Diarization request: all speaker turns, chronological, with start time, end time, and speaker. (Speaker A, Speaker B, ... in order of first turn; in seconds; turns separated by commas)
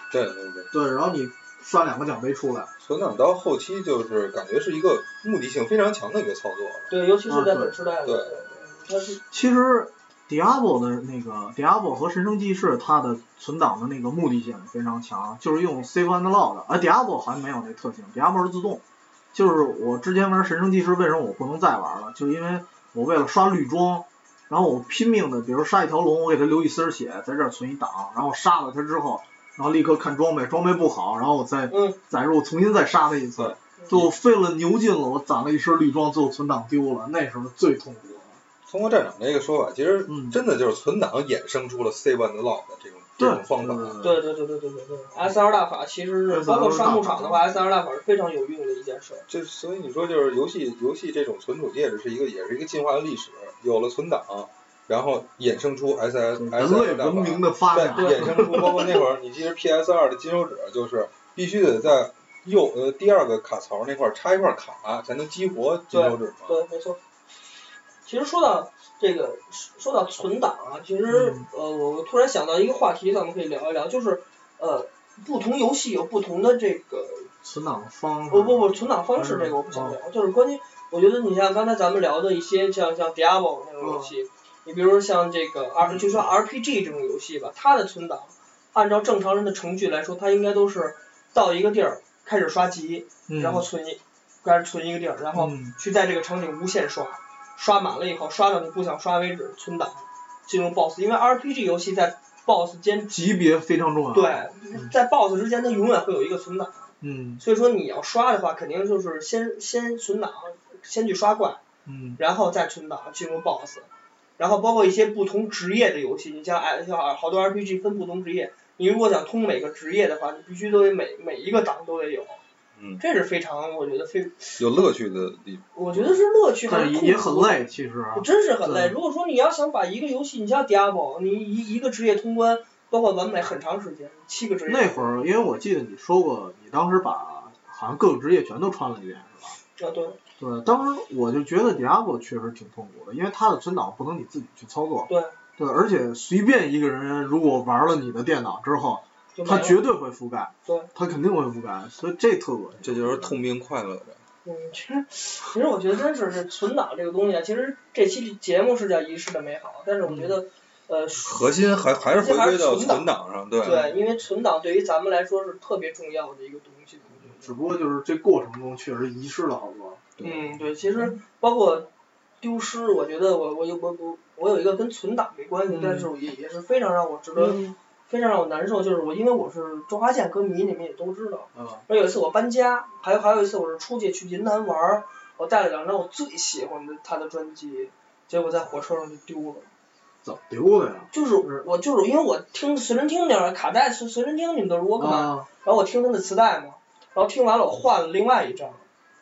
Speaker A: 0.1-0.7, Speaker B: 0.7-2.7, Speaker A: 2.8-6.9, Speaker C: 6.9-9.2, Speaker B: 7.3-7.8, Speaker A: 8.0-8.4, Speaker B: 9.3-38.4, Speaker C: 31.7-32.0, Speaker A: 33.4-34.1, Speaker A: 38.7-44.0, Speaker B: 40.1-40.4, Speaker B: 43.2-44.2, Speaker C: 44.0-49.2, Speaker B: 46.3-47.4, Speaker A: 49.3-66.6, Speaker B: 56.3-58.8, Speaker C: 57.9-59.0, Speaker C: 65.9-67.0, Speaker C: 68.0-77.3, Speaker B: 71.1-71.4, Speaker B: 77.4-80.0, Speaker C: 78.3-103.2, Speaker B: 83.8-84.1, Speaker B: 85.8-86.3, Speaker B: 93.3-93.7, Speaker B: 95.3-95.8, Speaker B: 103.1-104.9, Speaker C: 104.1-111.6, Speaker B: 107.0-107.4, Speaker B: 111.8-112.2, Speaker C: 112.2-122.4, Speaker A: 122.8-123.0, Speaker C: 123.0-124.9, Speaker A: 124.6-126.2, Speaker C: 125.7-135.1, Speaker B: 126.7-129.0, Speaker B: 134.7-139.6, Speaker C: 139.8-140.2, Speaker B: 140.4-153.4, Speaker C: 145.1-145.3, Speaker C: 149.3-149.8, Speaker C: 150.6-150.9, Speaker A: 152.8-154.2, Speaker C: 154.4-161.4, Speaker B: 160.1-160.4, Speaker A: 161.2-163.9, Speaker C: 162.1-163.1, Speaker C: 163.6-167.6, Speaker B: 167.3-170.0, Speaker A: 170.2-170.5, Speaker C: 170.2-171.9, Speaker C: 172.4-189.7, Speaker B: 175.7-176.1, Speaker B: 177.4-177.7, Speaker B: 181.5-181.8, Speaker B: 190.2-191.7, Speaker C: 191.1-198.8, Speaker B: 195.0-195.5